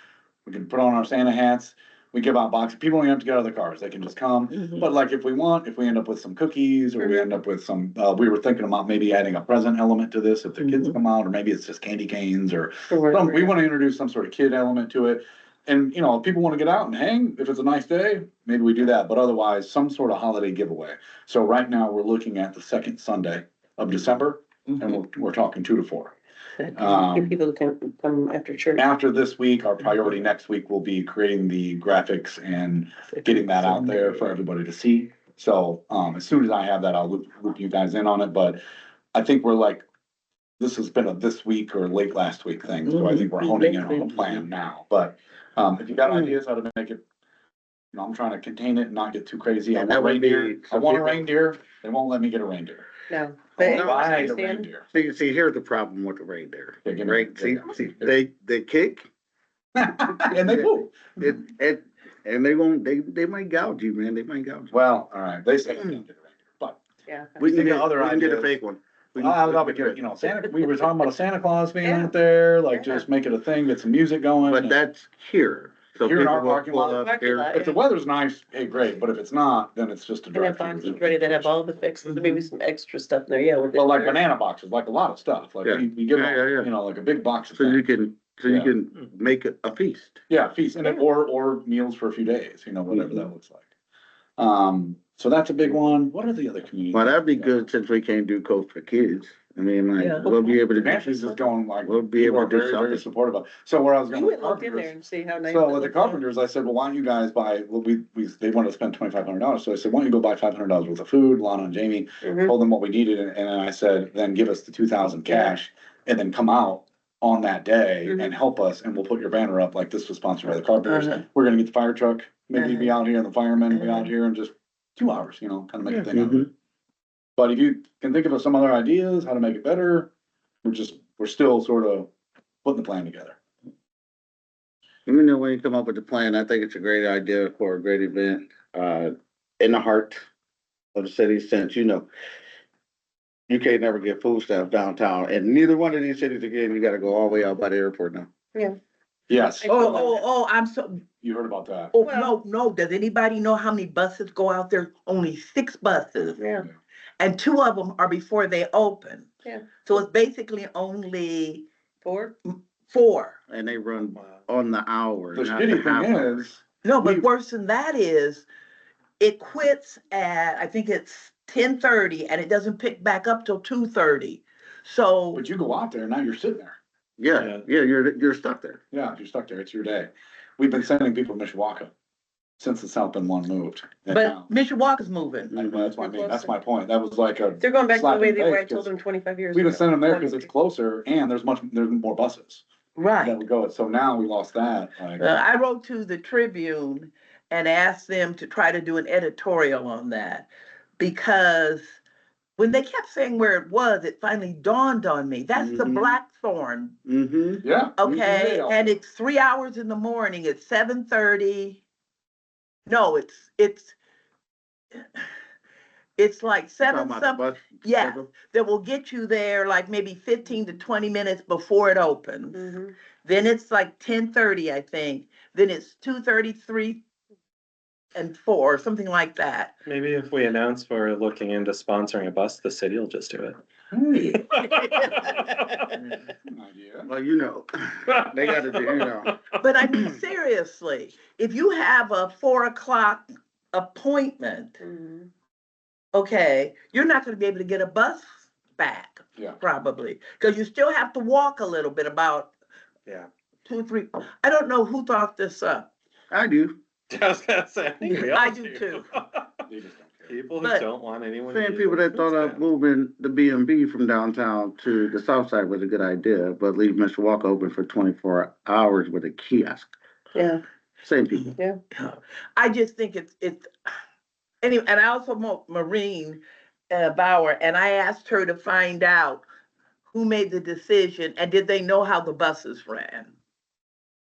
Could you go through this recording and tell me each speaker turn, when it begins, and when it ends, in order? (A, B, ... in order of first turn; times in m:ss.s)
0:00.5-0:26.2 A
0:07.0-0:07.3 B
0:12.9-0:13.5 B
0:26.6-0:28.8 B
0:26.7-0:27.4 A
0:28.8-0:38.6 A
0:33.2-0:33.9 B
0:39.1-0:39.8 A
0:40.6-0:47.0 A
0:42.9-0:44.0 B
0:47.9-0:52.9 A
0:49.8-0:51.3 C
0:53.1-0:54.7 B
0:53.6-0:54.9 A
0:53.6-0:54.3 C
0:54.9-0:59.1 C
0:56.8-0:58.2 A
0:59.8-1:01.3 A
1:00.2-1:04.7 C
1:04.7-1:06.8 A
1:07.0-1:07.4 B
1:07.4-1:10.3 C
1:07.4-1:08.6 A
1:09.2-1:14.8 A
1:11.8-1:12.1 B
1:12.7-1:13.0 B
1:14.5-1:17.5 C
1:16.0-1:21.5 A
1:16.9-1:17.8 B
1:20.3-1:24.2 B
1:23.7-1:27.8 A
1:25.6-1:26.7 C
1:27.6-1:30.2 C
1:28.4-1:28.7 A
1:30.3-1:33.7 A
1:32.9-1:33.3 C
1:34.4-1:37.5 A
1:36.9-1:41.0 C
1:40.0-1:40.3 D
1:40.7-1:44.9 A
1:41.8-1:43.0 C
1:44.1-1:46.2 B
1:45.4-2:06.5 A
1:52.2-1:52.5 B
2:06.1-2:06.5 C
2:07.4-2:10.1 A
2:10.6-2:12.1 A
2:12.6-2:13.4 A
2:15.1-2:20.2 C
2:20.9-2:22.1 C
2:23.5-2:28.3 C
2:29.3-2:30.1 A
2:29.6-2:30.2 B
2:29.6-2:31.0 D
2:31.2-2:31.9 A
2:31.9-2:36.4 D
2:32.0-2:32.4 B
2:36.4-2:36.6 B
2:37.2-2:39.3 D
2:39.4-2:39.8 B
2:39.8-2:41.7 D
2:42.0-2:42.3 B
2:42.9-2:43.4 D
2:43.5-2:46.4 C
2:44.1-2:44.4 E
2:45.4-2:46.6 A
2:46.8-2:48.5 D
2:49.2-2:55.4 D
2:55.3-2:56.8 A
2:57.2-2:58.8 C
2:57.4-2:57.6 E
2:58.9-3:01.9 A
3:02.6-3:04.5 A
3:04.1-3:05.5 D
3:05.5-3:08.9 A
3:05.6-3:05.9 C
3:06.0-3:06.5 B
3:07.6-3:10.5 B
3:09.5-3:12.6 A
3:13.0-3:13.4 D
3:13.2-3:15.3 A
3:15.2-3:20.5 D
3:21.0-3:21.9 D
3:22.6-3:26.9 D
3:25.6-3:26.2 C
3:27.0-3:28.2 C
3:27.6-3:28.9 A
3:28.0-3:31.8 D
3:32.9-3:33.9 D
3:36.2-3:47.0 D
3:36.8-3:38.3 C
3:42.5-3:42.9 B
3:48.1-3:49.7 D
3:49.8-3:53.6 E
3:53.9-3:54.5 A
3:54.2-3:55.9 E
3:55.9-3:57.1 A
3:57.1-3:59.4 C
3:58.5-3:59.6 E
3:59.6-4:04.8 D
4:04.8-4:05.3 B
4:06.1-4:12.5 D
4:13.7-4:15.9 D
4:16.3-4:16.8 C
4:17.1-4:19.6 E
4:18.0-4:19.1 D
4:19.7-4:20.4 A
4:20.2-4:22.6 E
4:20.6-4:20.9 D
4:21.5-4:29.9 C
4:30.3-4:30.6 B
4:31.0-4:31.6 C
4:31.9-4:33.7 D
4:34.6-4:39.4 D
4:40.1-4:43.3 D